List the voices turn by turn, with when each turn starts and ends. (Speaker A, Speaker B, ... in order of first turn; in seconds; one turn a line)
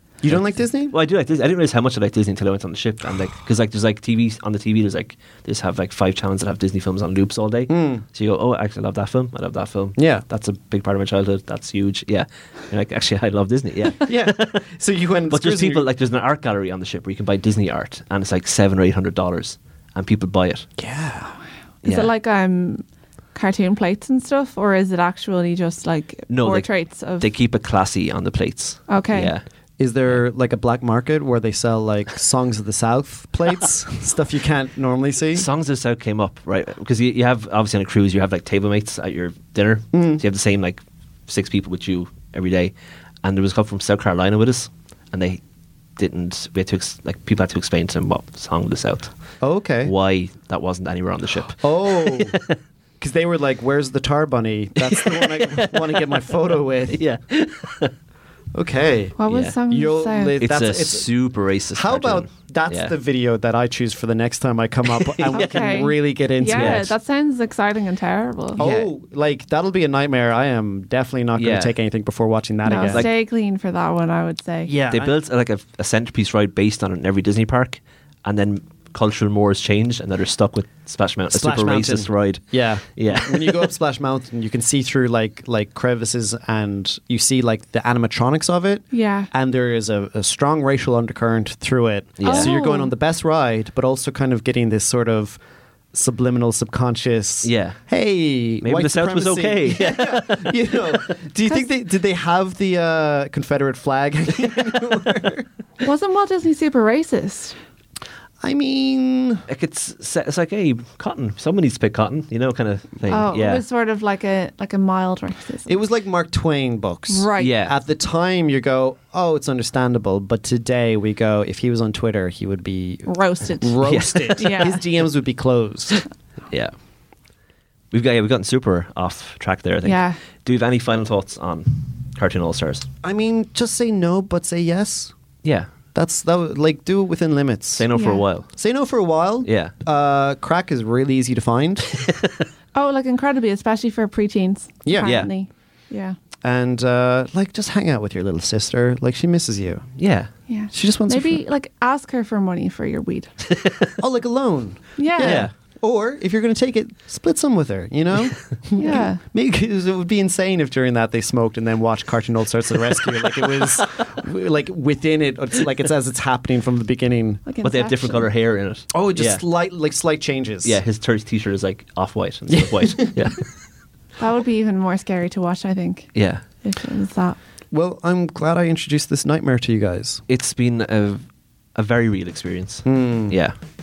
Speaker A: 0.2-0.9
Speaker B: 0.2-14.6
Speaker A: 7.7-8.0
Speaker A: 10.0-10.2
Speaker A: 14.1-15.8
Speaker B: 15.3-20.7
Speaker A: 20.8-21.3
Speaker B: 21.8-22.1
Speaker C: 21.8-27.2
Speaker B: 26.3-29.4
Speaker C: 28.9-29.3
Speaker A: 29.8-35.5
Speaker B: 35.3-45.4
Speaker A: 39.9-40.2
Speaker B: 46.0-49.1
Speaker A: 49.4-49.9
Speaker B: 49.8-52.6
Speaker A: 51.5-52.4
Speaker A: 53.0-57.0
Speaker B: 54.8-57.9
Speaker A: 58.5-61.1
Speaker C: 59.2-60.4
Speaker B: 59.3-59.5
Speaker B: 60.4-62.9
Speaker A: 61.7-66.9
Speaker B: 65.0-65.8
Speaker C: 65.3-68.6
Speaker B: 66.5-66.9
Speaker A: 68.6-73.1
Speaker B: 68.6-68.9
Speaker B: 71.3-71.7
Speaker C: 72.6-74.7
Speaker B: 72.8-73.1
Speaker A: 74.7-75.1
Speaker B: 74.9-83.7
Speaker A: 81.3-95.4
Speaker C: 88.9-89.3
Speaker B: 92.2-92.5
Speaker C: 92.2-92.9
Speaker A: 95.9-105.5
Speaker B: 97.4-97.8
Speaker B: 98.6-101.0
Speaker C: 105.8-107.6
Speaker A: 108.4-109.5
Speaker B: 109.5-113.6
Speaker C: 113.1-115.7
Speaker A: 115.7-126.0
Speaker C: 117.1-117.5
Speaker B: 117.4-117.7
Speaker C: 123.0-124.8
Speaker B: 123.8-124.6
Speaker B: 127.9-132.9
Speaker C: 129.8-130.2
Speaker A: 133.0-135.1
Speaker B: 135.4-135.7
Speaker A: 135.9-137.8
Speaker B: 137.8-138.5
Speaker C: 137.9-138.2
Speaker A: 138.5-141.9
Speaker B: 139.4-139.7
Speaker B: 141.9-142.4
Speaker C: 142.7-146.2
Speaker A: 144.8-145.2
Speaker B: 145.0-145.3
Speaker A: 146.4-149.9
Speaker B: 150.0-150.3
Speaker C: 150.5-153.3
Speaker A: 150.7-151.4
Speaker B: 153.4-153.9
Speaker A: 154.0-167.4
Speaker C: 154.9-155.4
Speaker B: 155.2-155.5
Speaker C: 158.8-159.2
Speaker C: 167.4-168.3
Speaker B: 167.6-169.4
Speaker A: 168.9-170.8
Speaker B: 170.6-173.5
Speaker A: 172.5-173.3
Speaker C: 174.2-177.4
Speaker B: 176.1-176.4
Speaker A: 177.7-180.2
Speaker B: 180.3-183.6
Speaker A: 182.8-183.4